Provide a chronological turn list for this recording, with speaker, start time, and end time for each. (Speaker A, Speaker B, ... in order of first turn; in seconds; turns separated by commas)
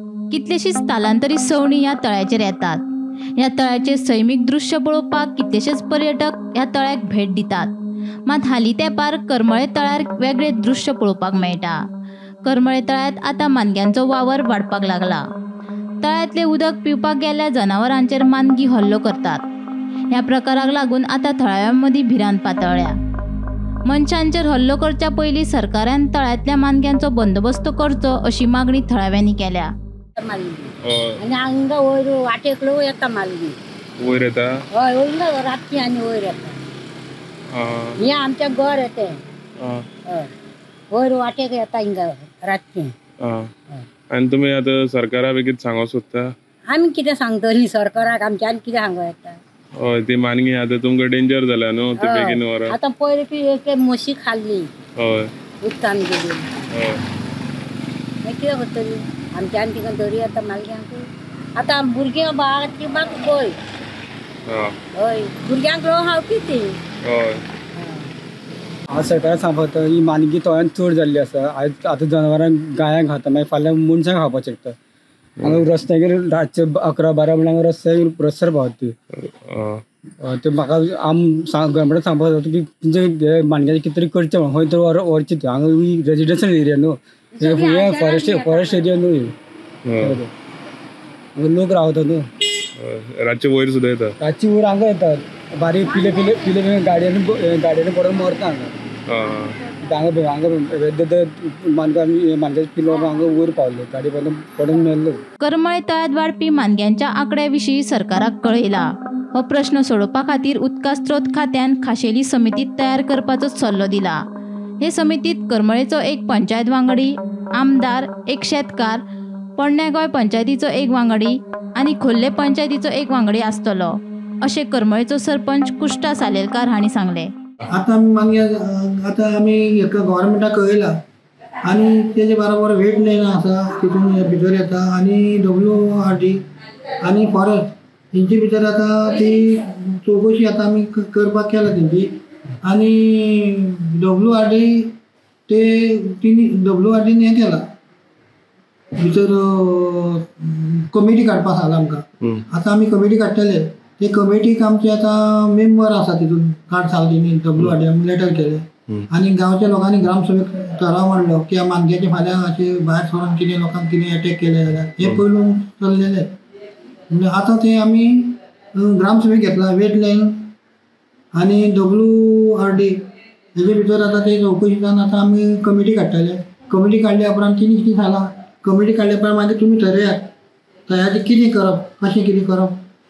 Speaker A: 0.3-2.8, Speaker A: 3.4-7.7, Speaker A: 8.3-11.8, Speaker A: 12.4-15.2, Speaker A: 16.0-19.4, Speaker A: 20.1-22.9, Speaker A: 23.9-29.7, Speaker B: 30.2-33.6, Speaker C: 30.9-31.2, Speaker C: 34.0-34.5, Speaker B: 34.7-36.6, Speaker C: 37.5-38.0, Speaker B: 38.0-39.2, Speaker C: 39.6-39.9, Speaker B: 40.9-42.9, Speaker C: 43.2-43.5, Speaker C: 44.1-46.3, Speaker B: 46.7-49.4, Speaker C: 49.8-52.8, Speaker B: 52.0-54.7, Speaker C: 55.0-55.3, Speaker B: 55.6-56.6, Speaker C: 56.7-57.0, Speaker B: 58.2-63.5, Speaker C: 64.5-64.7, Speaker B: 65.0-66.8, Speaker C: 67.0-67.4, Speaker B: 67.7-68.1, Speaker D: 68.9-74.8, Speaker D: 75.4-79.0, Speaker C: 79.1-79.8, Speaker D: 80.2-89.3, Speaker B: 87.3-89.0, Speaker C: 89.8-90.2, Speaker D: 90.0-90.3, Speaker D: 91.3-92.3, Speaker C: 92.8-94.1, Speaker D: 94.2-98.7, Speaker B: 95.9-96.5, Speaker C: 99.1-99.6, Speaker D: 99.8-105.2, Speaker A: 105.4-114.2, Speaker A: 114.8-119.0, Speaker A: 119.6-127.3, Speaker E: 127.7-130.9, Speaker E: 131.6-136.4, Speaker E: 137.0-142.1, Speaker E: 142.6-144.9, Speaker E: 145.5-147.6, Speaker E: 149.0-166.3, Speaker E: 167.1-170.4, Speaker E: 171.3-172.9, Speaker E: 173.5-180.3, Speaker E: 180.9-182.8